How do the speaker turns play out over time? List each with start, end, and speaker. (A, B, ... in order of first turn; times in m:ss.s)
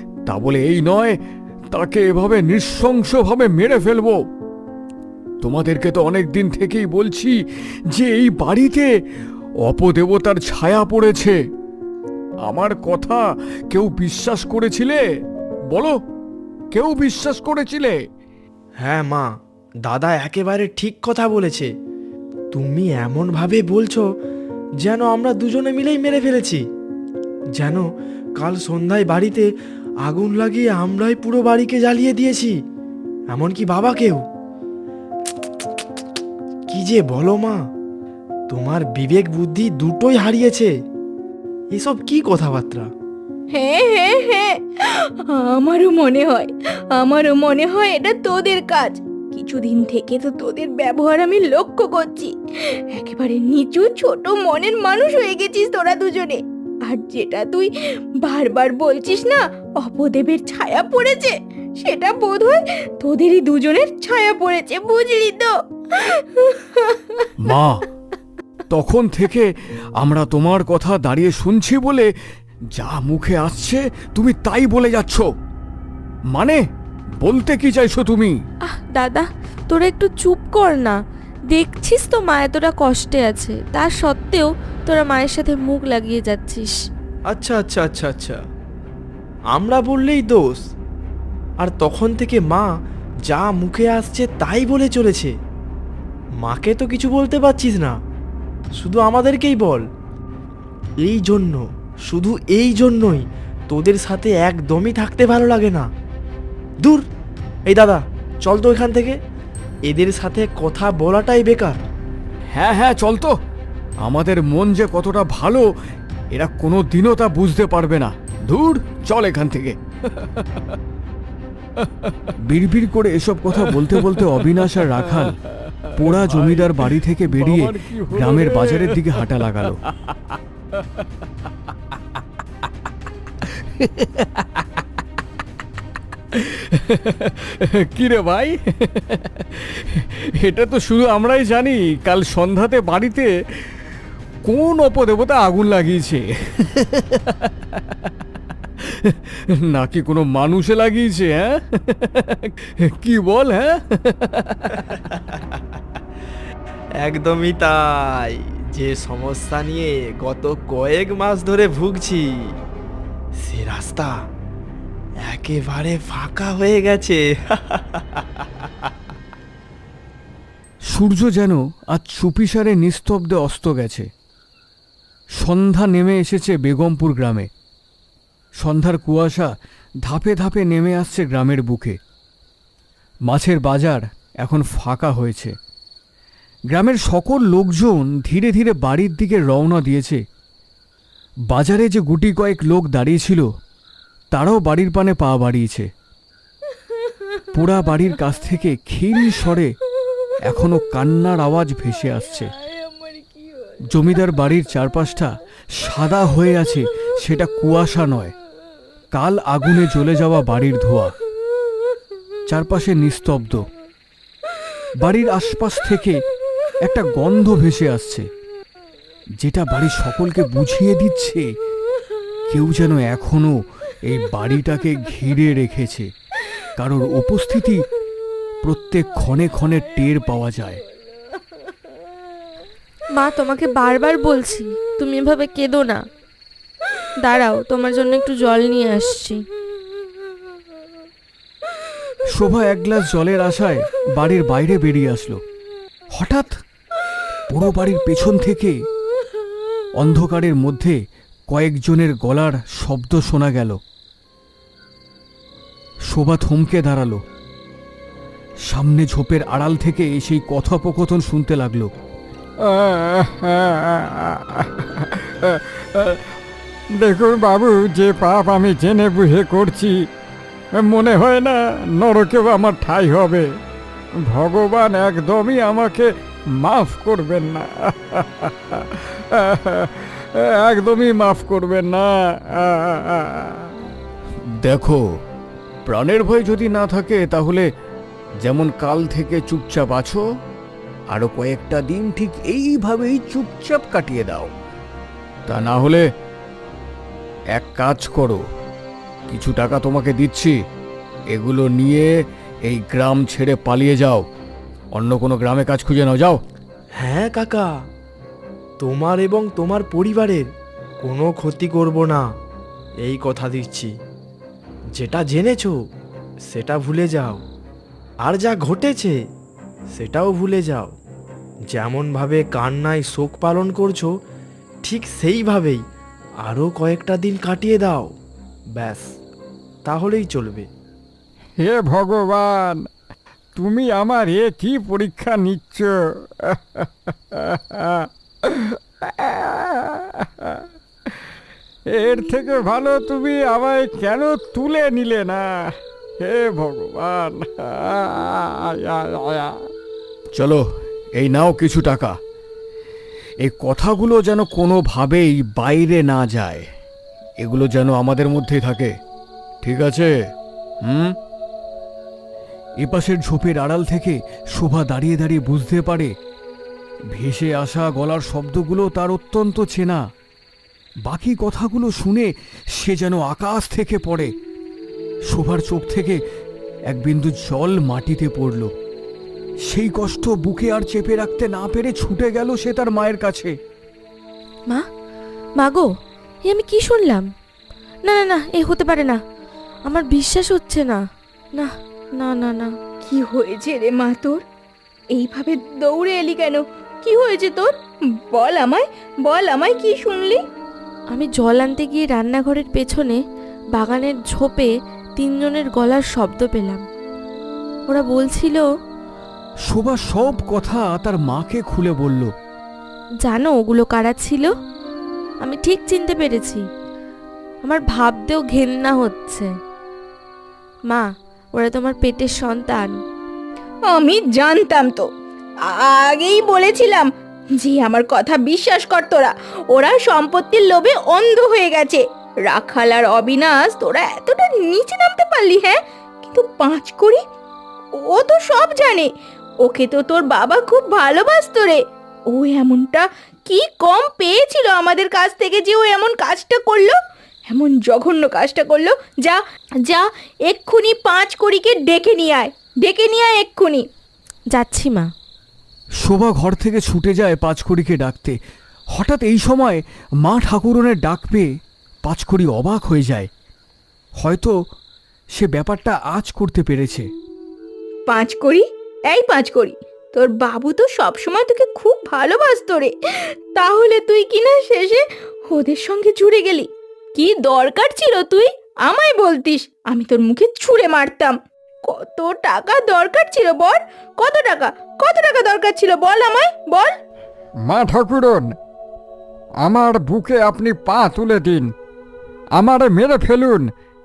0:00.3-0:01.2 A
0:01.7-0:04.2 A
0:05.4-0:07.4 A
0:07.9-0:08.9 A
0:09.6-0:11.4 A
0:12.4-0:15.0 A
0:15.7-0:16.0 A
0:16.7-0:18.0 A
0:18.8-0:19.3 B
0:19.9-0:21.7 B
0:22.5-0:24.1 B
0:24.8-0:26.6 B
0:27.6-0:27.9 B
0:28.4-0:29.5 B
0:30.0-0:32.6 B
0:33.3-0:34.2 B
0:36.7-0:37.7 B
0:38.5-0:40.7 B
0:41.7-0:42.9 B
0:43.5-1:07.3 C
1:07.4-1:07.8 A
1:08.7-1:12.1 A
1:12.7-1:15.3 A
1:16.3-1:16.6 A
1:17.2-1:18.4 A
1:18.7-1:21.0 D
1:21.5-1:26.7 D
1:27.3-1:28.4 B
1:29.5-1:30.6 B
1:31.6-1:32.7 B
1:33.3-1:35.3 B
1:36.4-1:38.0 B
1:38.8-1:39.8 B
1:41.0-1:45.9 B
1:47.7-1:49.2 B
1:49.9-1:51.8 B
1:52.5-1:53.4 A
1:54.0-1:55.7 A
1:56.3-1:59.8 A
2:02.4-2:05.4 A
2:03.7-2:10.2 E
2:06.0-2:09.8 A
2:13.5-2:14.8 A
2:16.3-2:23.3 A
2:24.5-2:28.1 A
2:28.8-2:34.8 A
2:34.8-2:35.6 B
2:37.0-2:42.3 B
2:43.4-2:44.2 B
2:45.2-2:48.5 B
2:50.9-2:54.1 A
2:55.4-2:57.5 A
2:58.6-2:59.5 A
3:00.0-3:02.0 A
3:03.3-3:05.5 A
3:06.7-3:10.2 A
3:11.5-3:13.5 A
3:14.3-3:15.9 A
3:17.5-3:19.8 A
3:20.4-3:22.5 A
3:22.9-3:23.7 C
3:23.9-3:28.3 A
3:29.1-3:31.1 A
3:32.5-3:33.6 A
3:35.0-3:36.2 A
3:36.8-3:38.3 A
3:39.4-3:41.5 A
3:42.5-3:46.1 A
3:46.8-3:47.8 A
3:48.6-3:50.8 A
3:53.1-3:56.0 D
3:57.2-3:59.4 D
4:02.3-4:05.4 A
4:06.1-4:06.6 A
4:07.5-4:08.8 A
4:10.0-4:11.0 A
4:11.5-4:13.8 A
4:16.1-4:17.2 A
4:18.7-4:21.9 A
4:22.6-4:26.2 E
4:27.0-4:30.1 E
4:30.8-4:33.5 E
4:34.3-4:43.8 E
4:44.6-4:45.0 A
4:45.9-4:47.7 A
4:48.4-4:50.2 A
4:51.1-4:54.5 A
4:55.5-4:56.1 A
4:57.6-4:58.4 A
4:59.3-5:00.6 A
5:01.3-5:02.1 A
5:02.7-5:04.3 A
5:05.0-5:06.4 A
5:07.0-5:07.7 B
5:08.8-5:10.5 B
5:11.0-5:12.3 B
5:13.0-5:13.9 B
5:15.0-5:15.8 B
5:16.5-5:17.4 B
5:18.2-5:19.2 B
5:19.9-5:21.0 B
5:21.7-5:24.1 B
5:24.8-5:25.8 B
5:26.4-5:28.1 B
5:28.8-5:29.1 B
5:29.8-5:30.7 B
5:31.6-5:32.9 E
5:33.6-5:40.7 E
5:41.9-5:45.5 E
5:46.2-5:49.5 E
5:50.4-5:50.6 A
5:51.2-5:52.2 A
5:53.4-5:56.7 A
5:57.4-5:58.9 A
5:59.6-6:00.1 A
6:00.8-6:01.2 A
6:02.8-6:06.1 A
6:07.1-6:10.0 A
6:11.1-6:14.3 A
6:15.3-6:16.2 A
6:16.9-6:18.7 A
6:19.7-6:23.6 A
6:25.6-6:25.9 D
6:26.4-6:27.3 D
6:28.1-6:29.2 D
6:29.9-6:31.0 D
6:31.6-6:32.7 D
6:33.0-6:34.4 C
6:35.1-6:37.7 C
6:38.3-6:40.4 C
6:41.1-6:43.2 D
6:43.8-6:46.8 D
6:47.9-6:48.7 D
6:49.7-6:52.3 A
6:53.2-6:54.5 D
6:55.4-6:56.6 D
6:57.6-6:59.5 D
7:00.9-7:03.0 D
7:03.9-7:05.1 C
7:05.7-7:17.2 C
7:18.0-7:19.1 C
7:19.6-7:27.0 C
7:27.5-7:33.8 C
7:34.5-7:35.1 D
7:36.0-7:38.4 A
7:38.9-7:41.5 A
7:42.0-7:43.3 A
7:44.2-7:44.5 A
7:45.4-7:47.1 A
7:48.1-8:07.0 C
8:07.7-8:08.6 E
8:09.6-8:11.7 E
8:12.6-8:13.7 E